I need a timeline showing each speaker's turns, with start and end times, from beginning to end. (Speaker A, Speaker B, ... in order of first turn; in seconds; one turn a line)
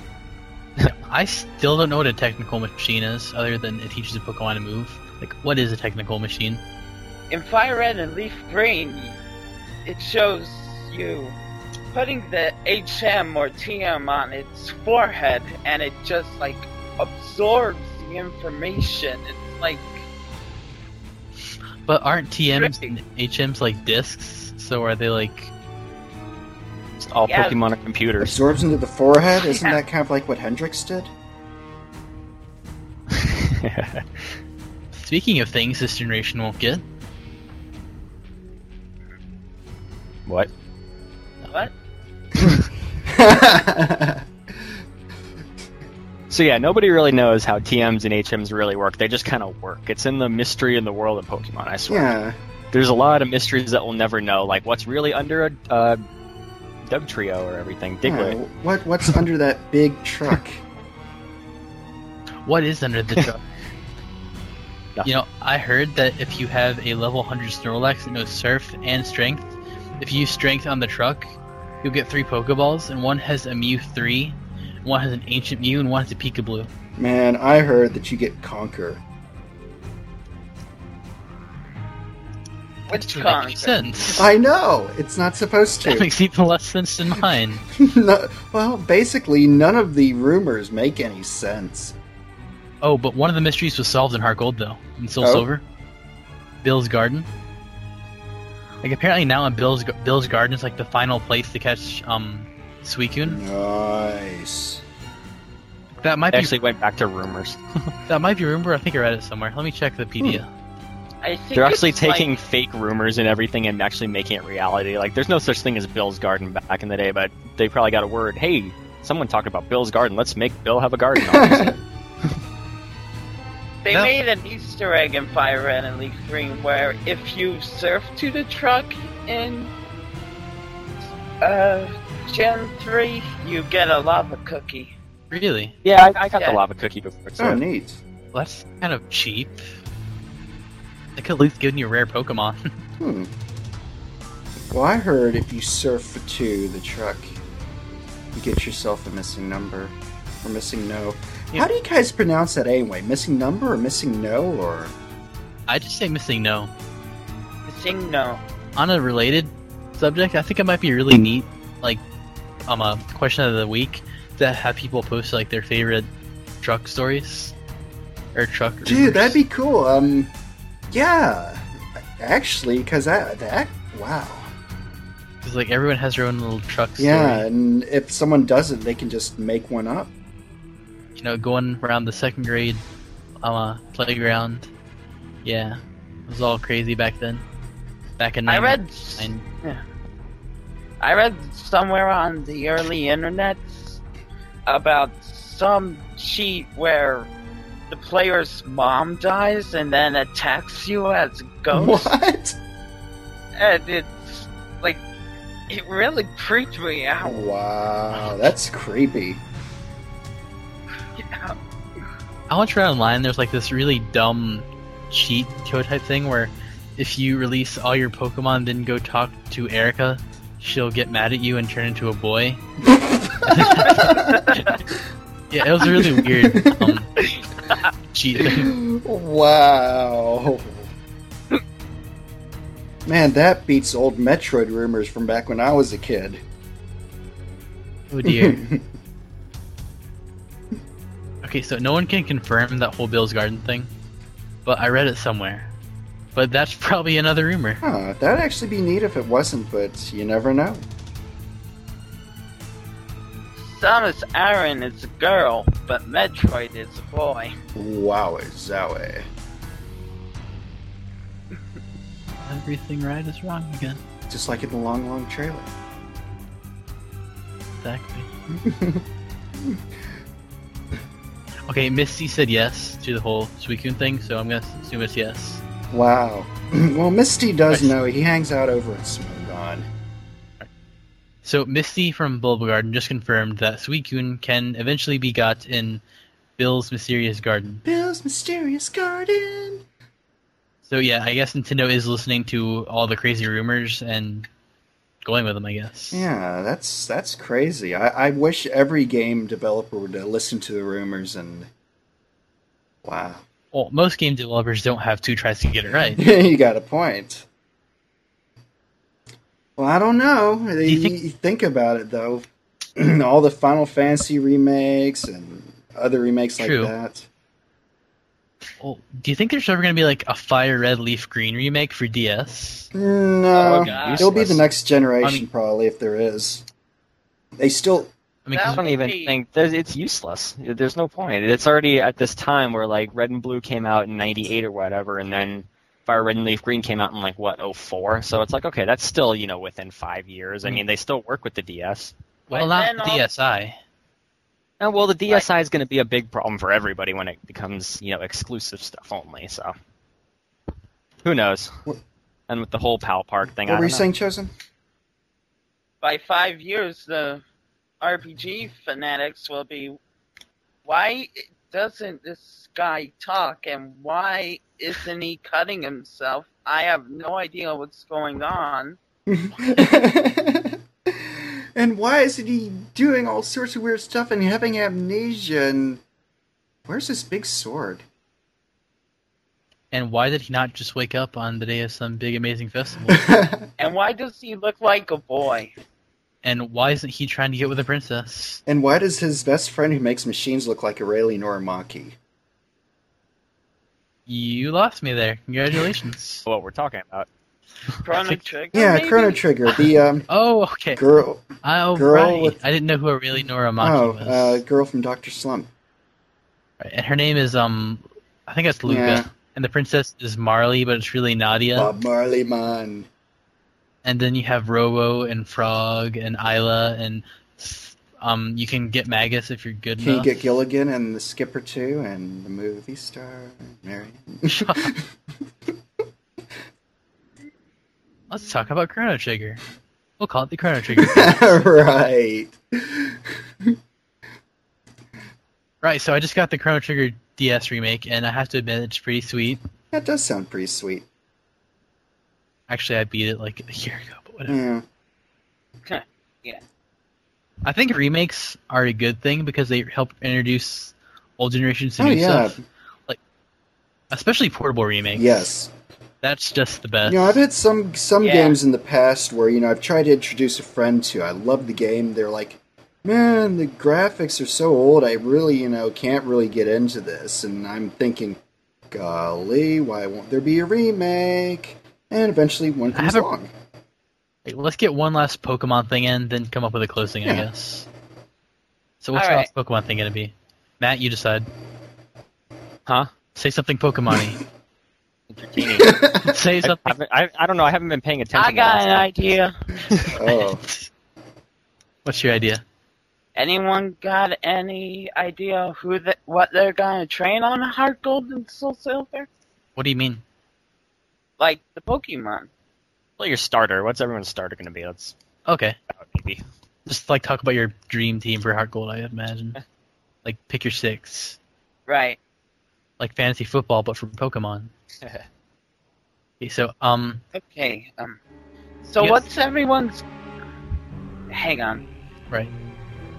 Speaker A: 0.9-6.6
Speaker B: 7.3-9.2
Speaker B: 9.8-11.4
Speaker B: 11.9-20.0
Speaker A: 21.9-25.5
Speaker B: 22.5-22.9
Speaker C: 27.0-28.4
Speaker B: 27.3-27.6
Speaker D: 28.2-31.1
Speaker B: 29.5-29.8
Speaker C: 33.1-34.4
Speaker A: 34.9-36.8
Speaker C: 42.4-42.6
Speaker D: 43.0-44.3
Speaker C: 46.3-52.1
Speaker D: 51.9-52.4
Speaker C: 52.7-56.0
Speaker C: 56.9-58.4
Speaker D: 58.0-60.6
Speaker A: 62.5-63.4
Speaker A: 65.0-76.7
Speaker D: 77.0-79.0
Speaker B: 82.9-83.8
Speaker A: 82.9-84.3
Speaker D: 84.2-86.1
Speaker A: 85.8-87.6
Speaker D: 87.2-92.0
Speaker A: 92.8-95.6
Speaker D: 95.2-95.5
Speaker A: 96.6-97.3
Speaker A: 98.8-103.4
Speaker D: 103.2-104.8
Speaker A: 106.0-106.5
Speaker C: 106.3-107.9
Speaker A: 108.1-110.5
Speaker B: 111.2-112.3
Speaker C: 111.5-121.8
Speaker D: 121.2-121.8
Speaker B: 123.8-129.7
Speaker B: 131.4-134.9
Speaker A: 135.3-135.8
Speaker C: 135.8-137.6
Speaker B: 136.3-136.6
Speaker D: 137.4-138.0
Speaker A: 138.3-139.7
Speaker A: 141.2-142.7
Speaker D: 143.0-143.3
Speaker D: 144.7-147.4
Speaker D: 148.3-154.9
Speaker A: 155.7-156.7
Speaker B: 157.7-158.4
Speaker A: 158.8-162.0
Speaker A: 162.7-166.1
Speaker A: 166.6-167.6
Speaker A: 168.3-169.4
Speaker D: 168.8-170.3
Speaker D: 170.9-171.6
Speaker D: 172.2-174.5
Speaker A: 175.4-177.5
Speaker D: 177.0-180.1
Speaker A: 181.2-182.8
Speaker A: 183.4-184.7
Speaker A: 185.4-187.4
Speaker A: 188.2-189.4
Speaker B: 188.5-189.8
Speaker B: 191.0-194.0
Speaker B: 194.7-197.3
Speaker B: 197.9-202.1
Speaker D: 201.7-202.6
Speaker B: 203.6-205.0
Speaker B: 205.7-207.5
Speaker D: 207.2-209.4
Speaker B: 211.2-211.6
Speaker A: 212.5-222.6
Speaker D: 222.9-224.4
Speaker A: 223.4-224.8
Speaker A: 225.5-227.1
Speaker D: 225.8-227.0
Speaker A: 228.1-228.7
Speaker D: 228.4-230.9
Speaker D: 233.1-236.4
Speaker A: 238.1-238.6
Speaker D: 238.2-238.9
Speaker A: 241.4-243.9
Speaker A: 244.7-245.7
Speaker A: 246.3-247.8
Speaker D: 247.8-250.8
Speaker B: 253.6-257.5
Speaker D: 257.8-259.3
Speaker A: 262.5-264.0
Speaker D: 264.3-265.7
Speaker A: 267.8-268.3
Speaker D: 268.5-269.1
Speaker D: 269.6-269.8
Speaker A: 271.7-275.6
Speaker D: 275.9-279.9
Speaker A: 281.4-286.0
Speaker A: 286.6-287.8
Speaker D: 287.8-289.9
Speaker A: 290.9-294.5
Speaker A: 295.2-296.3
Speaker D: 296.1-301.7
Speaker D: 303.0-303.4
Speaker A: 303.7-306.2
Speaker D: 306.1-307.5
Speaker D: 309.8-317.3
Speaker A: 310.9-311.2
Speaker A: 316.6-316.9
Speaker A: 318.8-322.9
Speaker D: 322.9-326.6
Speaker B: 323.5-324.3
Speaker C: 323.6-324.6
Speaker D: 327.6-328.1
Speaker A: 328.5-328.8
Speaker B: 328.5-329.4
Speaker C: 328.7-342.1
Speaker A: 342.5-343.8
Speaker B: 342.5-343.3
Speaker C: 344.8-349.7
Speaker C: 351.2-351.7
Speaker C: 352.5-354.1
Speaker D: 353.6-354.5
Speaker B: 356.0-357.4
Speaker B: 358.0-360.0
Speaker B: 360.9-369.0
Speaker D: 369.3-376.0
Speaker D: 376.9-378.0
Speaker A: 379.9-383.3
Speaker D: 383.1-383.7
Speaker B: 383.8-385.7
Speaker A: 386.4-388.6
Speaker D: 388.7-392.2
Speaker A: 394.3-396.5
Speaker C: 396.5-397.3
Speaker B: 398.0-399.4
Speaker D: 398.7-400.3
Speaker A: 400.3-401.0
Speaker D: 401.0-402.6
Speaker A: 401.6-404.6
Speaker D: 403.8-405.7
Speaker A: 406.8-411.9
Speaker D: 408.9-409.3
Speaker D: 411.8-413.1
Speaker A: 414.0-420.6
Speaker D: 420.0-425.1
Speaker A: 424.5-424.9
Speaker A: 428.3-429.6
Speaker A: 430.2-431.6
Speaker D: 430.9-433.8
Speaker A: 435.8-439.6
Speaker D: 439.9-441.1
Speaker A: 442.7-444.6
Speaker D: 444.5-444.9
Speaker B: 445.9-446.6
Speaker A: 447.6-453.2
Speaker D: 452.0-452.6
Speaker A: 454.1-455.5
Speaker D: 455.2-455.7
Speaker A: 456.2-457.4
Speaker D: 457.1-468.4
Speaker B: 458.2-458.6
Speaker D: 468.9-473.5
Speaker A: 472.9-473.3
Speaker A: 474.4-477.9
Speaker A: 479.0-481.5
Speaker B: 479.1-479.5
Speaker A: 483.4-484.4
Speaker C: 485.3-486.0
Speaker D: 485.6-486.3
Speaker A: 486.2-486.9
Speaker C: 486.6-489.1
Speaker B: 488.4-489.6
Speaker C: 489.9-490.1
Speaker D: 490.1-490.6
Speaker A: 490.3-490.9
Speaker A: 492.1-492.6
Speaker B: 493.4-499.3
Speaker A: 499.8-500.2
Speaker B: 501.4-502.5
Speaker C: 503.2-505.1
Speaker A: 505.5-505.8
Speaker C: 505.9-506.4
Speaker A: 506.9-509.6
Speaker A: 510.2-511.4
Speaker B: 511.9-512.2
Speaker A: 513.0-514.7
Speaker C: 515.0-515.3
Speaker A: 516.4-517.2
Speaker B: 517.3-518.2
Speaker B: 518.8-520.0
Speaker A: 519.0-519.3
Speaker B: 521.3-521.9